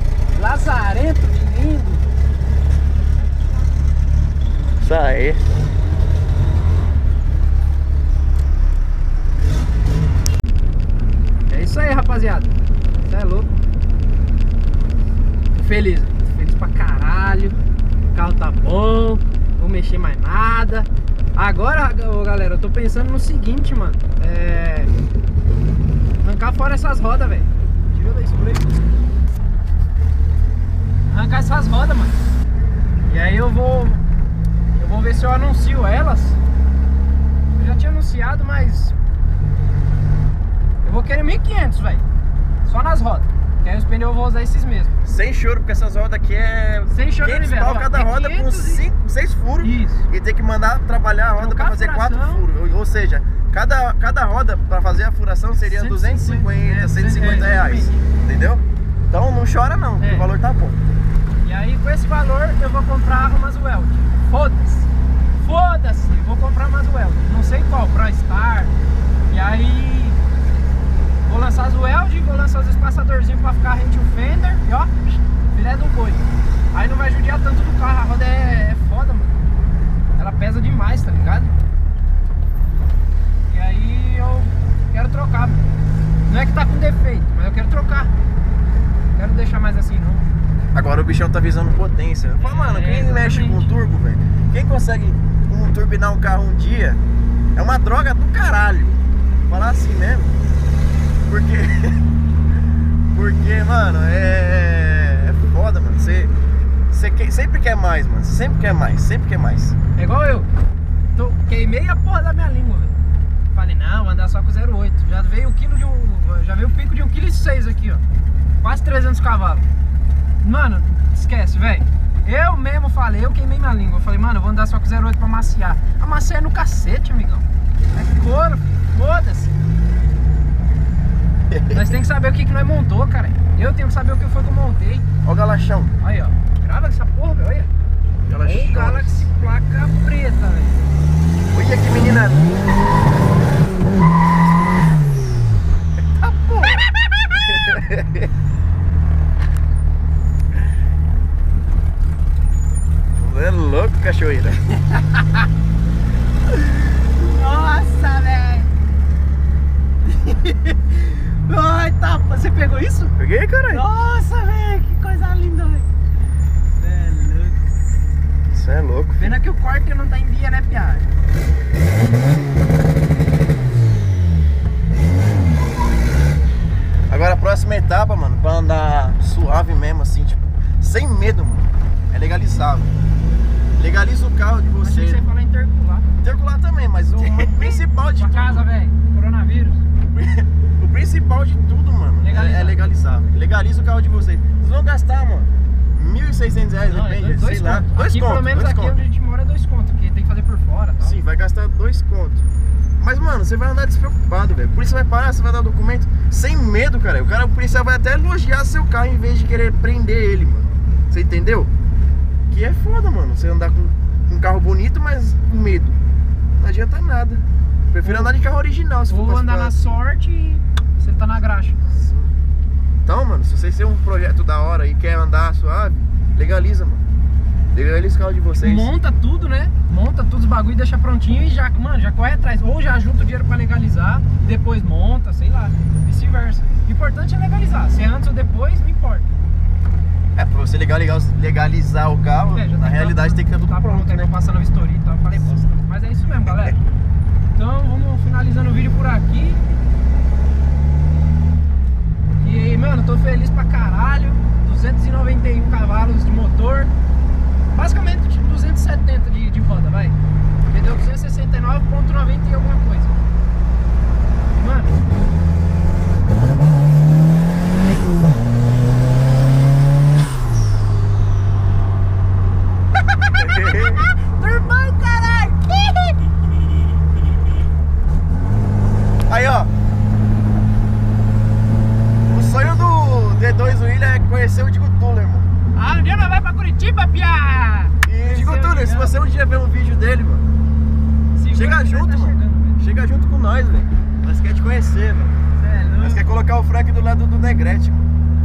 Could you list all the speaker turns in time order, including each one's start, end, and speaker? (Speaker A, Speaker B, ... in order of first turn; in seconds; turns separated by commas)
Speaker A: 0.3-2.1, Speaker B: 4.8-5.4, Speaker A: 11.5-12.5, Speaker A: 13.1-13.5, Speaker A: 15.5-17.6, Speaker A: 18.1-24.9, Speaker A: 26.2-28.8, Speaker A: 31.1-32.2, Speaker A: 33.1-34.0, Speaker A: 34.8-36.4, Speaker A: 37.6-39.0, Speaker A: 40.8-42.0, Speaker A: 42.6-45.0, Speaker B: 45.0-60.8, Speaker A: 46.9-48.8, Speaker A: 49.6-50.1, Speaker A: 51.4-52.5, Speaker A: 55.7-58.0, Speaker A: 60.0-60.3, Speaker A: 61.4-68.7, Speaker A: 69.3-70.2, Speaker A: 71.2-79.4, Speaker A: 80.2-81.6, Speaker A: 83.5-85.6, Speaker A: 86.3-88.1, Speaker A: 89.2-90.2, Speaker B: 90.7-97.0, Speaker A: 92.4-93.7, Speaker B: 97.6-100.3, Speaker B: 101.3-102.0, Speaker B: 103.1-106.3, Speaker B: 106.9-109.8, Speaker A: 110.0-110.5, Speaker A: 111.2-112.9, Speaker A: 113.5-118.0, Speaker A: 118.6-119.7, Speaker A: 120.4-129.6, Speaker B: 131.5-131.8, Speaker A: 131.6-135.1, Speaker B: 135.2-136.0, Speaker A: 136.0-137.7, Speaker B: 138.3-139.3, Speaker A: 138.4-140.8, Speaker B: 141.5-142.5, Speaker B: 146.0-148.3, Speaker B: 153.2-154.9, Speaker A: 154.9-155.4, Speaker A: 156.6-158.7, Speaker A: 160.0-163.2, Speaker B: 163.2-163.8, Speaker A: 163.7-165.9, Speaker A: 166.8-167.6, Speaker B: 168.5-169.3, Speaker A: 169.2-171.1, Speaker B: 177.1-182.9, Speaker B: 183.8-185.3, Speaker A: 184.8-186.1, Speaker B: 186.2-188.7, Speaker A: 187.1-189.8, Speaker B: 190.1-199.0, Speaker A: 192.2-192.8, Speaker A: 196.9-201.2, Speaker B: 201.0-202.4, Speaker B: 203.0-211.7, Speaker B: 212.5-216.0, Speaker B: 216.6-219.9, Speaker A: 218.0-218.3, Speaker A: 219.1-221.8, Speaker B: 221.9-222.3, Speaker B: 223.1-227.0, Speaker B: 227.7-228.9, Speaker A: 228.6-239.3, Speaker B: 240.4-244.3, Speaker A: 242.5-246.8, Speaker A: 247.6-249.6, Speaker A: 252.4-256.9, Speaker A: 257.7-260.2, Speaker A: 260.7-263.2, Speaker A: 264.5-265.0, Speaker A: 273.2-276.3, Speaker B: 273.3-274.1, Speaker B: 279.3-279.7, Speaker B: 282.3-285.5, Speaker A: 285.7-289.1, Speaker B: 288.0-290.4, Speaker A: 291.4-292.8, Speaker B: 291.5-295.4, Speaker A: 295.6-296.2, Speaker B: 296.0-298.1